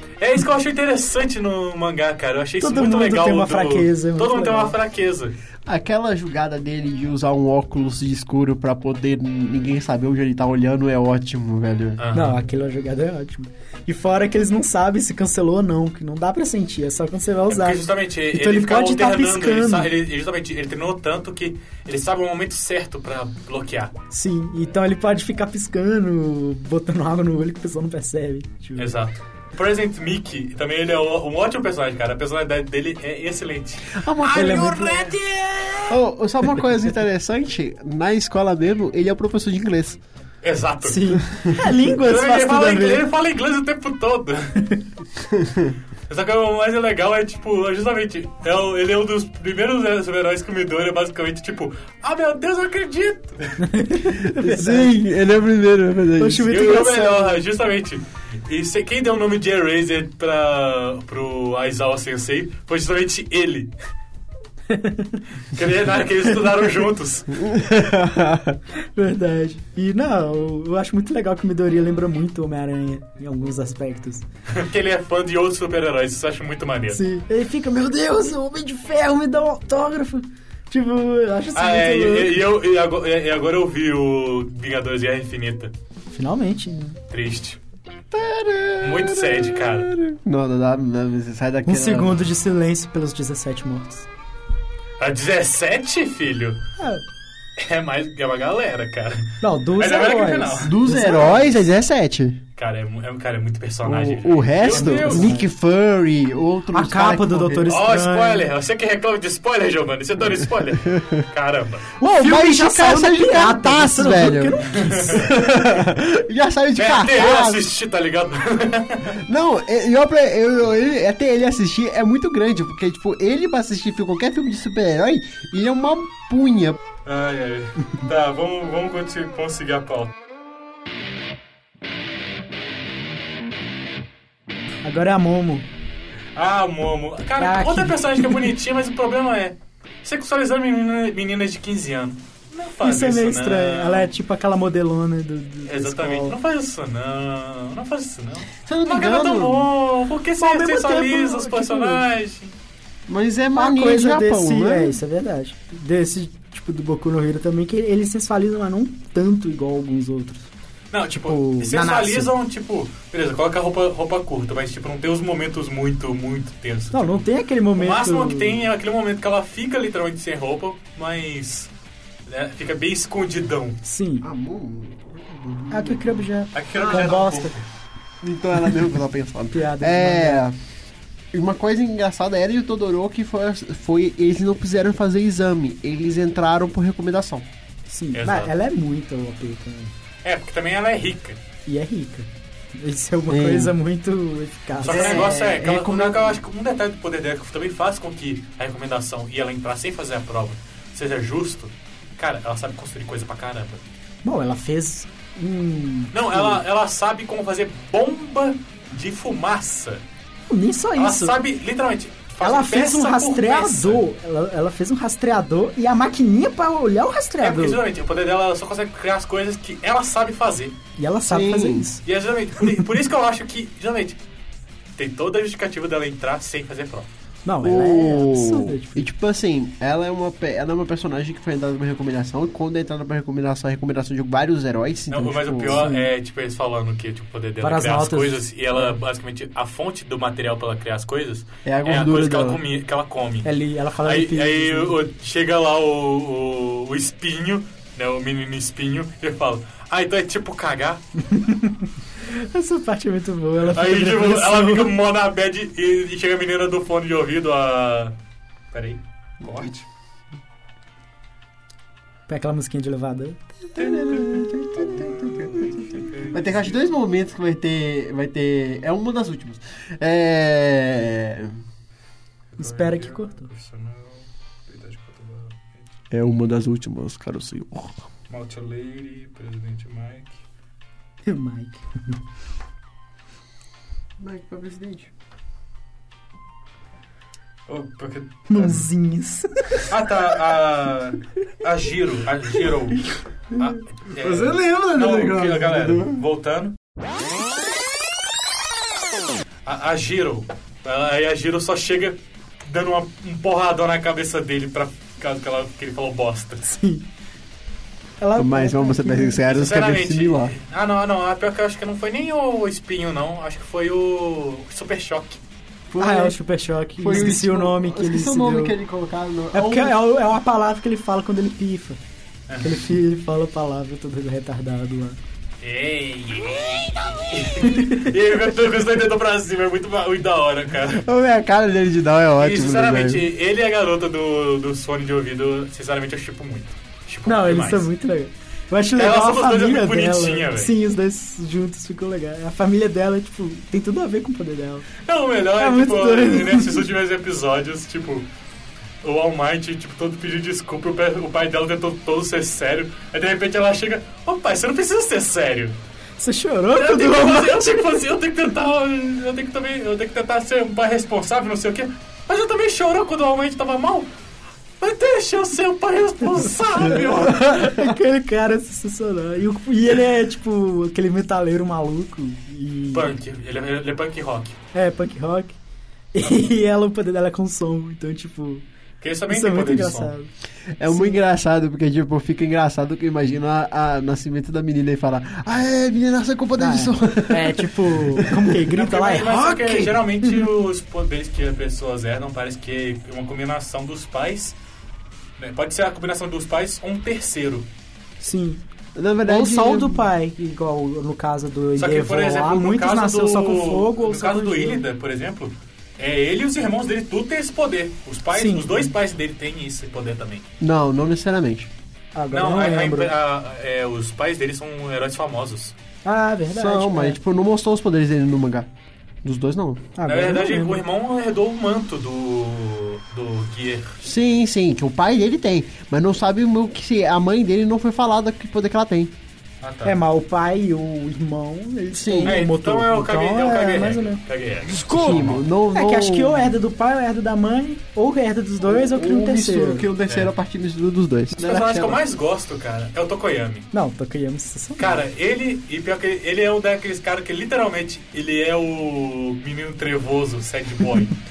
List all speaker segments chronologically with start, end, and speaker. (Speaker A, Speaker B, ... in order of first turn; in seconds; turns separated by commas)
Speaker A: 0.2-5.4, Speaker B: 2.6-4.8, Speaker C: 5.7-12.0, Speaker A: 12.0-12.4, Speaker B: 12.1-19.9, Speaker A: 17.5-23.9, Speaker B: 24.1-28.9, Speaker A: 28.8-35.9, Speaker C: 34.0-35.1, Speaker B: 34.3-35.1, Speaker C: 35.9-40.0, Speaker A: 40.4-44.7, Speaker B: 40.8-43.0, Speaker C: 45.3-45.8, Speaker A: 46.1-53.6, Speaker B: 53.7-54.9, Speaker C: 54.2-56.5, Speaker B: 56.2-57.4, Speaker A: 56.5-63.7, Speaker B: 64.7-65.2, Speaker A: 65.5-67.4, Speaker C: 67.4-68.6, Speaker B: 69.0-74.2, Speaker A: 74.5-77.0, Speaker B: 76.9-82.3, Speaker A: 81.5-85.7, Speaker B: 86.1-87.0, Speaker A: 87.1-87.6, Speaker C: 88.1-92.2, Speaker A: 88.8-89.9, Speaker B: 91.7-94.1, Speaker A: 95.0-96.6, Speaker B: 96.8-97.0, Speaker A: 97.6-100.7, Speaker B: 99.4-101.6, Speaker C: 100.6-102.4, Speaker A: 102.6-105.3, Speaker C: 103.8-107.7, Speaker B: 104.7-105.5, Speaker B: 106.7-108.5, Speaker A: 107.7-111.9, Speaker B: 112.0-115.3, Speaker C: 112.0-117.7, Speaker A: 114.7-115.3, Speaker A: 116.8-119.2, Speaker C: 119.2-126.8, Speaker A: 127.0-130.1, Speaker B: 134.8-135.7, Speaker A: 136.4-144.1, Speaker B: 137.4-138.5, Speaker B: 142.8-146.4, Speaker A: 145.7-152.5, Speaker C: 148.7-149.7, Speaker B: 150.4-152.0, Speaker C: 153.1-155.0, Speaker B: 153.6-160.5, Speaker A: 160.9-171.7, Speaker B: 161.1-162.3, Speaker B: 166.9-168.6, Speaker A: 172.3-173.8, Speaker B: 173.8-174.3, Speaker C: 174.2-176.2, Speaker B: 175.7-177.6, Speaker A: 176.5-177.7, Speaker C: 176.8-177.2, Speaker C: 178.2-180.6, Speaker B: 179.5-180.4, Speaker C: 181.3-187.5, Speaker B: 187.9-189.9, Speaker A: 188.1-188.5, Speaker A: 190.2-191.4, Speaker B: 191.7-195.2, Speaker C: 193.3-193.7, Speaker A: 194.8-203.8, Speaker C: 194.9-196.4, Speaker B: 204.2-206.6, Speaker A: 206.1-210.0, Speaker B: 210.5-211.4, Speaker A: 211.0-214.0, Speaker B: 212.4-217.8, Speaker A: 217.4-220.8, Speaker B: 221.0-222.0, Speaker C: 221.2-221.9, Speaker A: 222.1-224.2, Speaker A: 225.0-227.1, Speaker B: 227.4-229.1, Speaker C: 227.6-235.9, Speaker A: 235.1-243.5, Speaker B: 235.6-236.1, Speaker B: 237.6-238.9, Speaker C: 241.7-242.6, Speaker B: 243.4-244.9, Speaker A: 244.0-251.0, Speaker B: 251.3-254.9, Speaker A: 253.7-258.1, Speaker A: 258.7-259.9, Speaker B: 262.3-263.6, Speaker C: 263.8-265.7, Speaker A: 263.8-266.8, Speaker C: 266.3-271.6, Speaker B: 272.6-273.5, Speaker A: 272.6-275.9, Speaker C: 276.1-278.0, Speaker A: 278.3-280.4, Speaker B: 281.3-282.2, Speaker C: 284.2-285.1, Speaker A: 287.7-288.9, Speaker B: 288.5-289.9, Speaker A: 289.9-296.8, Speaker C: 294.2-296.2, Speaker A: 299.7-306.6, Speaker B: 306.6-307.1, Speaker B: 308.2-309.4, Speaker C: 308.4-310.5, Speaker A: 309.5-315.4, Speaker C: 315.9-316.4, Speaker B: 316.0-318.8, Speaker C: 317.0-320.0, Speaker B: 319.5-322.0, Speaker A: 322.5-322.8, Speaker B: 322.6-325.2, Speaker A: 325.6-331.0, Speaker B: 327.6-328.0, Speaker C: 330.9-333.3, Speaker A: 332.4-337.9, Speaker B: 337.3-344.9, Speaker A: 338.9-340.7, Speaker A: 345.0-348.3, Speaker B: 345.6-346.9, Speaker A: 349.0-355.8, Speaker B: 356.2-357.8, Speaker A: 356.7-364.1, Speaker A: 364.8-367.7, Speaker B: 367.0-373.1, Speaker A: 372.9-374.6, Speaker B: 374.7-375.6, Speaker B: 376.1-378.6, Speaker A: 379.0-380.1, Speaker B: 379.3-380.3, Speaker C: 380.8-388.4, Speaker B: 380.9-381.2, Speaker B: 386.6-390.3, Speaker A: 388.7-394.6, Speaker A: 395.4-397.7, Speaker B: 398.2-398.6, Speaker C: 398.9-400.1, Speaker B: 399.2-404.8, Speaker A: 401.8-410.4, Speaker B: 408.3-408.9, Speaker C: 410.6-411.7, Speaker B: 412.1-413.1, Speaker A: 412.3-415.8, Speaker B: 416.1-417.2, Speaker C: 416.5-418.7, Speaker C: 419.2-419.9, Speaker B: 420.0-420.8, Speaker A: 420.1-424.0, Speaker C: 424.0-429.1, Speaker A: 429.6-430.0, Speaker B: 429.9-434.2, Speaker C: 431.9-432.4, Speaker A: 432.2-435.4, Speaker C: 434.7-436.5, Speaker B: 435.7-439.9, Speaker C: 438.6-442.0, Speaker A: 441.4-443.7, Speaker B: 443.7-445.0, Speaker A: 444.8-451.1